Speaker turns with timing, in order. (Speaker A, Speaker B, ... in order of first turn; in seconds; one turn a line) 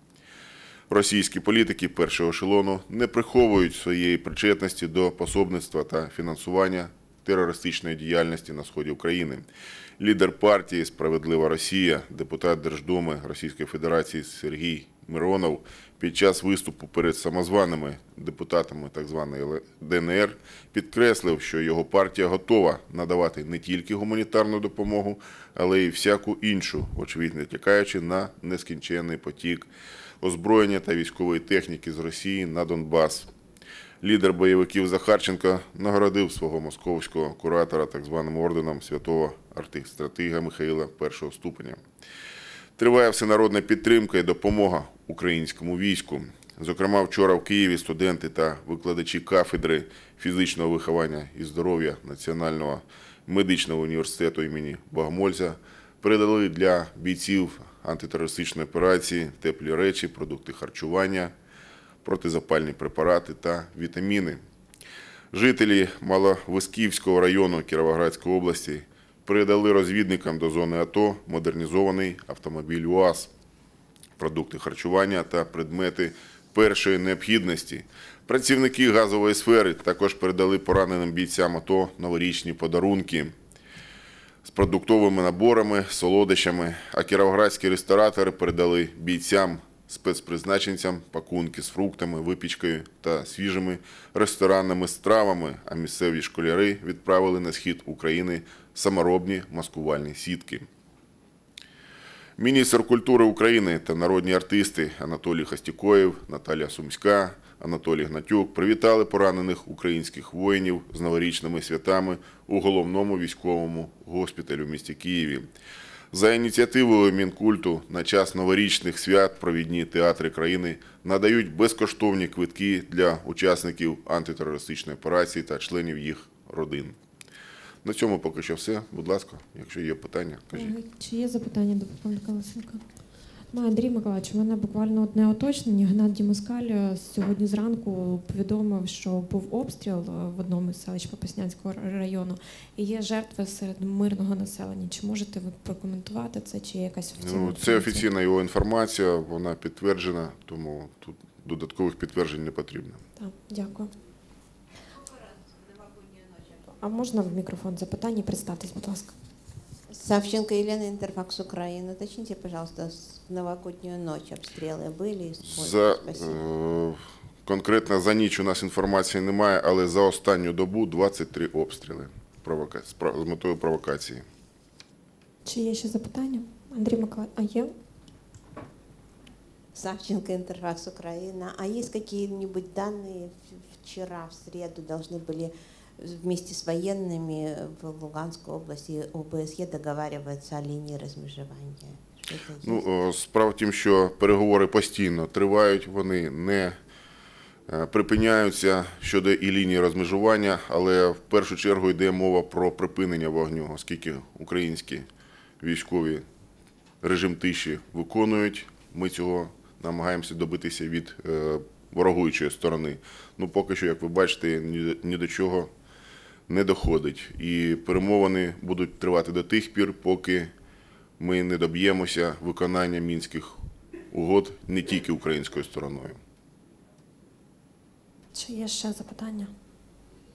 Speaker A: 0.9-9.5
Speaker A: 10.0-29.7
Speaker A: 30.2-33.3
Speaker A: 34.0-41.8
Speaker A: 42.8-61.3
Speaker A: 62.0-64.4
Speaker A: 65.3-73.3
Speaker A: 74.2-83.3
Speaker A: 84.4-100.7
Speaker A: 102.4-115.5
Speaker A: 116.1-127.0
Speaker A: 127.8-130.7
Speaker B: 130.5-132.8
Speaker B: 133.5-148.1
Speaker A: 147.2-153.0
Speaker B: 153.2-153.9
Speaker B: 156.8-159.1
Speaker C: 159.9-166.4
Speaker A: 165.4-174.2
Speaker B: 175.4-177.7
Speaker C: 179.8-192.8
Speaker A: 192.6-196.8
Speaker A: 197.7-205.1
Speaker A: 205.6-206.2
Speaker A: 207.0-215.7
Speaker A: 216.5-220.5
Speaker A: 221.2-226.2
Speaker B: 228.3-229.5